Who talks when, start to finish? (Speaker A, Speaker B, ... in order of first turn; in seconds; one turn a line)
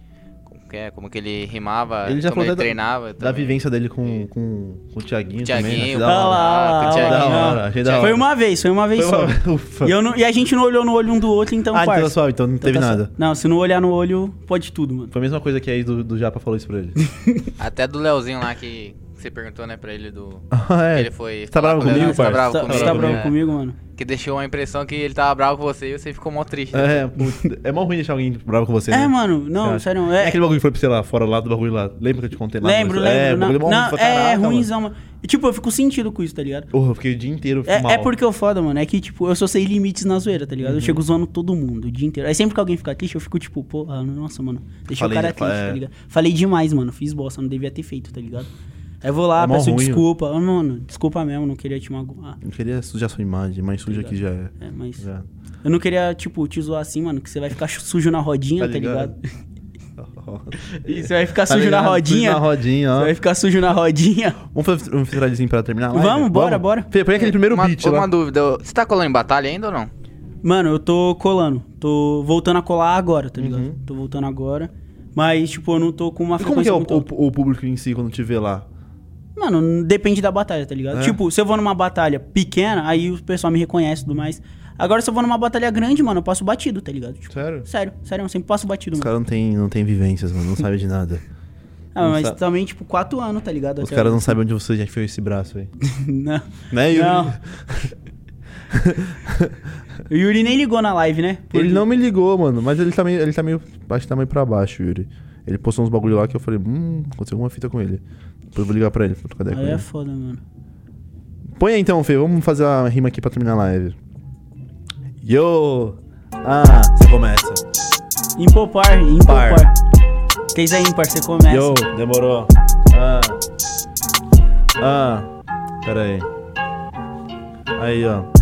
Speaker A: 0.5-4.2
Speaker B: 2.0-8.2
Speaker A: 5.4-8.1
Speaker C: 6.0-15.1
Speaker B: 8.9-9.9
Speaker B: 11.7-13.1
Speaker B: 15.1-17.0
Speaker C: 17.1-17.4
Speaker A: 17.6-23.4
Speaker B: 20.5-23.3
Speaker C: 21.8-23.8
Speaker A: 23.9-27.1
Speaker B: 26.7-34.7
Speaker C: 28.9-30.4
Speaker C: 32.6-36.7
Speaker B: 36.7-38.1
Speaker C: 37.6-48.5
Speaker B: 40.6-41.0
Speaker B: 44.9-45.8
Speaker C: 49.0-52.4
Speaker B: 49.4-50.0
Speaker B: 52.4-55.3
Speaker C: 53.9-55.0
Speaker C: 55.6-59.2
Speaker B: 58.6-59.1
Speaker B: 60.0-63.1
Speaker C: 60.8-64.4
Speaker B: 64.5-68.1
Speaker C: 65.9-66.9
Speaker A: 67.2-69.9
Speaker C: 70.4-77.0
Speaker B: 73.4-73.8
Speaker B: 76.4-78.7
Speaker C: 79.3-89.1
Speaker B: 80.9-81.2
Speaker B: 87.3-87.7
Speaker B: 89.0-91.2
Speaker C: 91.9-94.4
Speaker B: 92.0-92.4
Speaker B: 93.8-95.7
Speaker C: 95.8-97.3
Speaker B: 96.7-97.9
Speaker B: 98.7-99.5
Speaker C: 100.1-101.8
Speaker B: 101.5-108.0
Speaker B: 108.5-109.8
Speaker C: 109.5-110.4
Speaker B: 111.6-114.0
Speaker B: 115.2-117.6
Speaker C: 118.3-119.7
Speaker B: 119.2-119.7
Speaker C: 120.5-121.7
Speaker B: 121.5-123.4
Speaker B: 124.8-125.3
Speaker B: 125.8-126.3
Speaker B: 127.8-128.3